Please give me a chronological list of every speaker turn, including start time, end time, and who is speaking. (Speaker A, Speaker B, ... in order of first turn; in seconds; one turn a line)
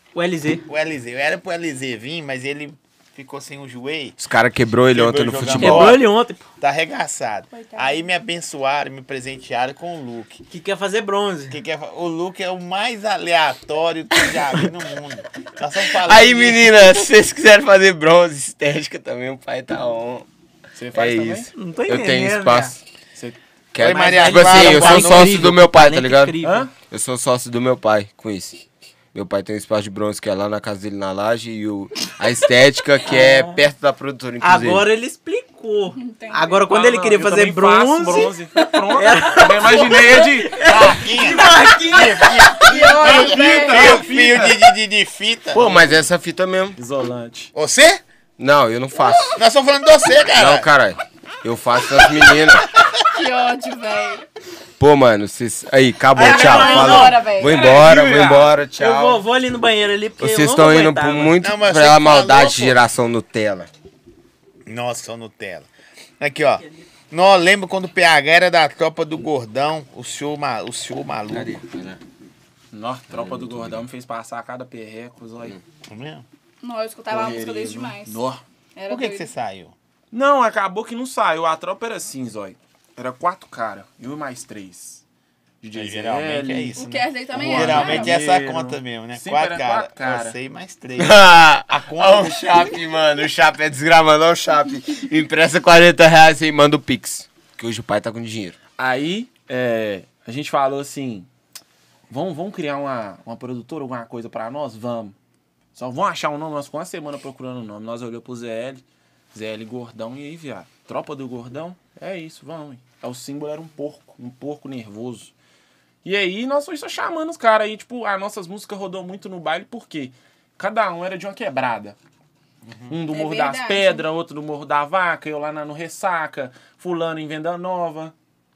Speaker A: 0.1-0.6
Speaker B: 0.7-4.2
Speaker C: 4.2-6.0
Speaker B: 4.9-6.0
Speaker A: 5.6-6.4
Speaker B: 6.6-10.4
Speaker D: 7.5-8.1
Speaker A: 10.5-11.6
Speaker B: 11.5-17.1
Speaker C: 16.0-20.2
Speaker E: 20.7-21.5
Speaker C: 20.9-22.8
Speaker A: 21.5-22.7
Speaker C: 23.7-28.6
Speaker B: 23.8-25.5
Speaker E: 23.9-24.6
Speaker A: 24.1-26.7
Speaker E: 26.4-26.7
Speaker C: 29.1-34.9
Speaker A: 33.0-33.6
Speaker A: 34.4-43.0
Speaker D: 35.9-36.7
Speaker E: 36.6-40.6
Speaker B: 40.5-45.7
Speaker D: 42.6-44.0
Speaker E: 42.6-44.6
Speaker E: 45.5-46.1
Speaker C: 45.5-46.8
Speaker E: 46.7-47.5
Speaker B: 47.5-48.0
Speaker C: 48.4-49.4
Speaker B: 49.3-50.7
Speaker C: 50.3-52.7
Speaker D: 53.1-54.2
Speaker C: 54.8-59.2
Speaker A: 56.1-57.2
Speaker D: 56.2-57.7
Speaker E: 57.4-58.6
Speaker A: 58.7-61.4
Speaker C: 60.2-63.7
Speaker B: 61.4-62.8
Speaker B: 64.7-65.7
Speaker B: 66.2-71.5
Speaker A: 66.6-66.9
Speaker C: 71.3-72.0
Speaker E: 72.7-75.6
Speaker C: 73.1-73.8
Speaker B: 75.9-76.2
Speaker D: 76.6-79.3
Speaker E: 77.1-78.4
Speaker B: 78.9-79.7
Speaker E: 80.1-85.0
Speaker E: 85.6-86.8
Speaker B: 85.7-92.7
Speaker D: 86.8-88.2
Speaker E: 87.3-90.3
Speaker C: 91.0-98.6
Speaker E: 98.8-101.3
Speaker E: 102.1-105.1
Speaker E: 105.7-115.3
Speaker E: 116.0-122.0
Speaker B: 122.6-123.0
Speaker E: 122.9-128.1
Speaker D: 123.1-124.1